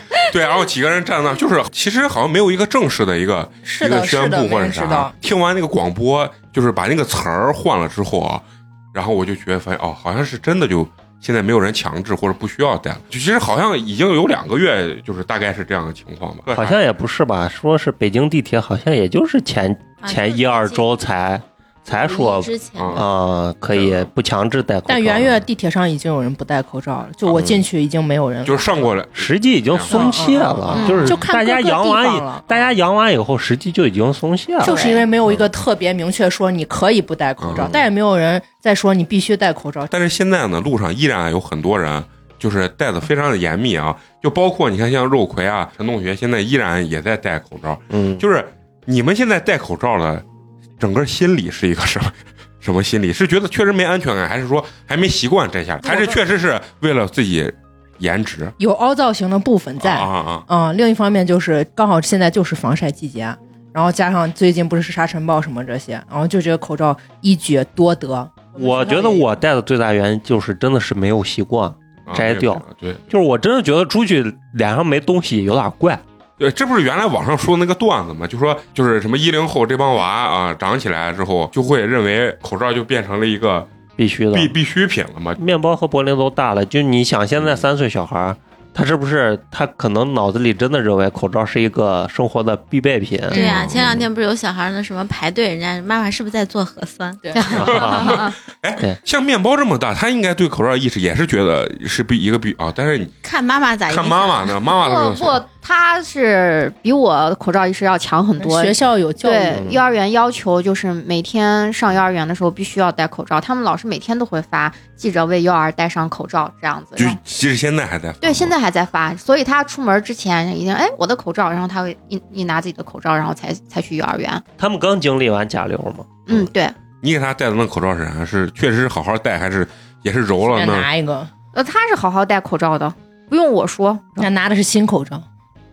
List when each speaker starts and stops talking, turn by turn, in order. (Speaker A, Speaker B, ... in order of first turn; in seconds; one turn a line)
Speaker A: 0.3-16.8
Speaker B: 3.6-5.1
Speaker C: 16.5-25.4
Speaker D: 20.0-20.9
Speaker D: 21.9-23.0
Speaker A: 22.8-23.1
Speaker A: 23.7-24.1
Speaker B: 24.9-28.9
Speaker A: 28.4-30.2
Speaker C: 29.1-34.8
Speaker B: 29.9-32.7
Speaker E: 30.7-31.2
Speaker B: 34.6-39.9
Speaker E: 34.6-35.1
Speaker A: 37.4-37.7
Speaker C: 37.5-37.9
Speaker A: 39.9-50.2
Speaker C: 47.9-48.2
Speaker A: 50.8-58.5
Speaker B: 55.8-56.2
Speaker B: 58.6-69.3
Speaker A: 59.8-60.5
Speaker C: 68.5-76.0
Speaker A: 72.0-73.0
Speaker A: 76.4-83.7
Speaker C: 84.0-84.5
Speaker A: 84.3-85.4
Speaker C: 85.4-93.4
Speaker D: 93.3-97.6
Speaker A: 93.4-94.0
Speaker E: 97.3-98.3
Speaker C: 97.5-98.2
Speaker A: 97.6-103.1
Speaker D: 103.2-104.6
Speaker A: 103.9-105.4
Speaker E: 104.7-117.2
Speaker B: 108.4-109.6
Speaker C: 109.5-109.8
Speaker A: 117.0-118.5
Speaker E: 118.2-124.4
Speaker C: 124.6-126.5
Speaker E: 126.3-126.7
Speaker A: 127.0-130.9
Speaker B: 130.4-131.3
Speaker E: 131.5-134.3
Speaker B: 134.2-135.2